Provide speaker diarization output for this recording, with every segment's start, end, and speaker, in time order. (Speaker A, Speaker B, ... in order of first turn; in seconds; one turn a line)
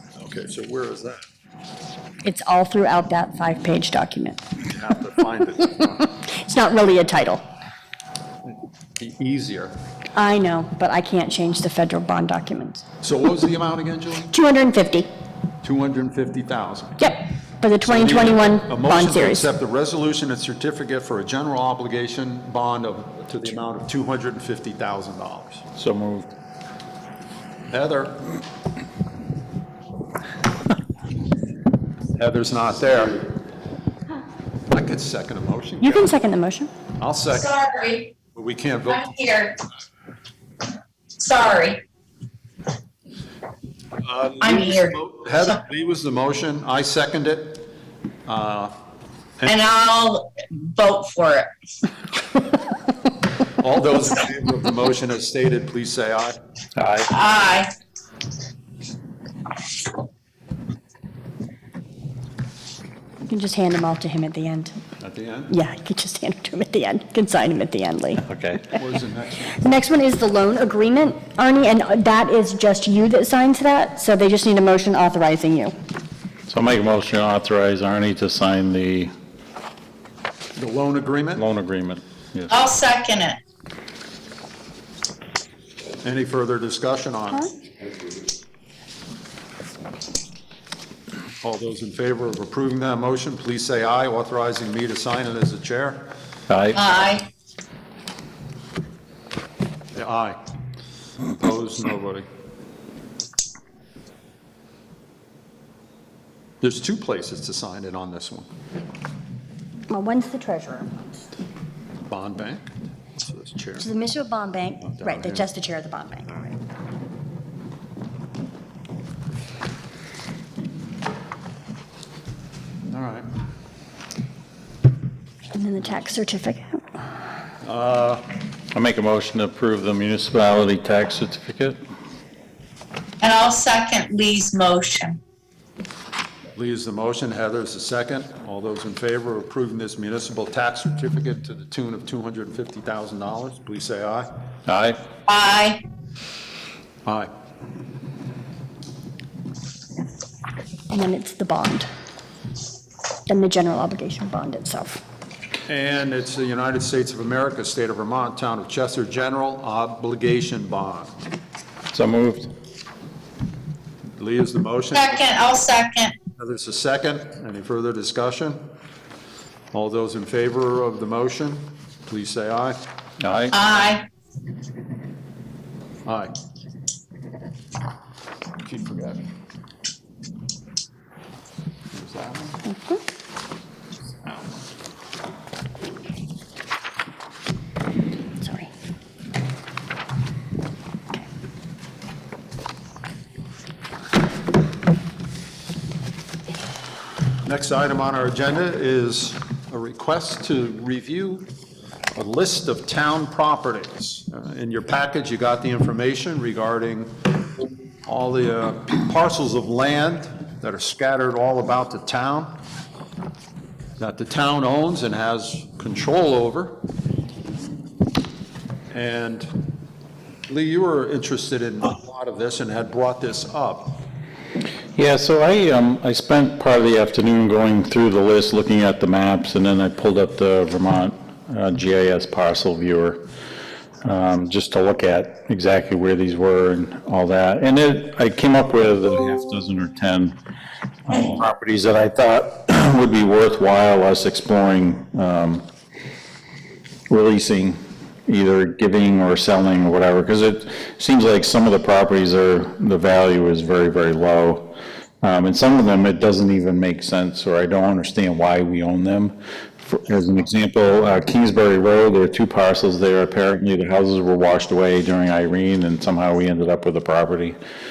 Speaker A: 0.2-1.2
Speaker B: 2.2-4.4
Speaker A: 4.7-6.1
Speaker B: 6.2-7.4
Speaker A: 8.5-9.8
Speaker B: 10.2-12.8
Speaker A: 13.0-14.3
Speaker B: 14.3-15.1
Speaker A: 15.6-17.1
Speaker B: 17.0-19.5
Speaker A: 17.8-25.6
Speaker C: 25.8-26.3
Speaker A: 27.7-28.3
Speaker A: 32.2-33.3
Speaker A: 34.7-36.1
Speaker B: 35.8-36.7
Speaker A: 37.0-37.6
Speaker D: 37.4-38.2
Speaker A: 38.3-39.1
Speaker D: 39.0-39.6
Speaker D: 41.2-41.8
Speaker A: 44.0-47.7
Speaker D: 44.4-45.6
Speaker A: 48.3-48.7
Speaker D: 49.5-51.5
Speaker A: 53.6-56.4
Speaker C: 56.8-57.1
Speaker D: 57.1-57.7
Speaker B: 63.3-64.8
Speaker A: 65.0-65.5
Speaker B: 65.5-68.3
Speaker C: 68.3-68.7
Speaker A: 68.8-69.7
Speaker B: 69.6-75.7
Speaker C: 76.5-79.1
Speaker A: 80.6-81.4
Speaker C: 81.4-82.5
Speaker D: 82.5-83.4
Speaker A: 86.0-87.5
Speaker A: 91.4-96.1
Speaker C: 96.5-96.8
Speaker D: 96.7-97.3
Speaker A: 100.0-100.4
Speaker A: 101.3-102.3
Speaker A: 106.6-108.5
Speaker B: 109.9-111.2
Speaker A: 112.1-113.9
Speaker B: 113.8-116.5
Speaker A: 114.9-115.5
Speaker A: 122.9-123.3
Speaker B: 125.5-126.8
Speaker A: 127.6-128.2
Speaker C: 128.7-131.8
Speaker D: 133.2-135.2
Speaker A: 136.6-144.3
Speaker C: 144.7-145.0
Speaker D: 145.3-145.8
Speaker B: 150.9-151.9
Speaker B: 153.3-155.0
Speaker A: 155.7-161.2
Speaker C: 161.9-162.5
Speaker A: 164.2-165.4
Speaker D: 164.9-166.2
Speaker A: 166.4-168.6
Speaker A: 169.7-172.8
Speaker C: 173.2-173.5
Speaker D: 173.5-174.1
Speaker A: 176.1-176.3
Speaker A: 178.6-179.2
Speaker A: 181.9-182.6
Speaker B: 182.7-183.0
Speaker A: 184.2-184.6
Speaker B: 188.4-188.7
Speaker A: 197.4-201.5
Speaker A: 202.2-207.2
Speaker A: 208.1-212.6
Speaker A: 214.0-216.8
Speaker A: 218.9-219.5
Speaker A: 220.5-224.0
Speaker C: 225.0-233.2
Speaker C: 234.0-240.3
Speaker C: 241.1-245.7
Speaker C: 247.1-259.3
Speaker C: 259.9-267.6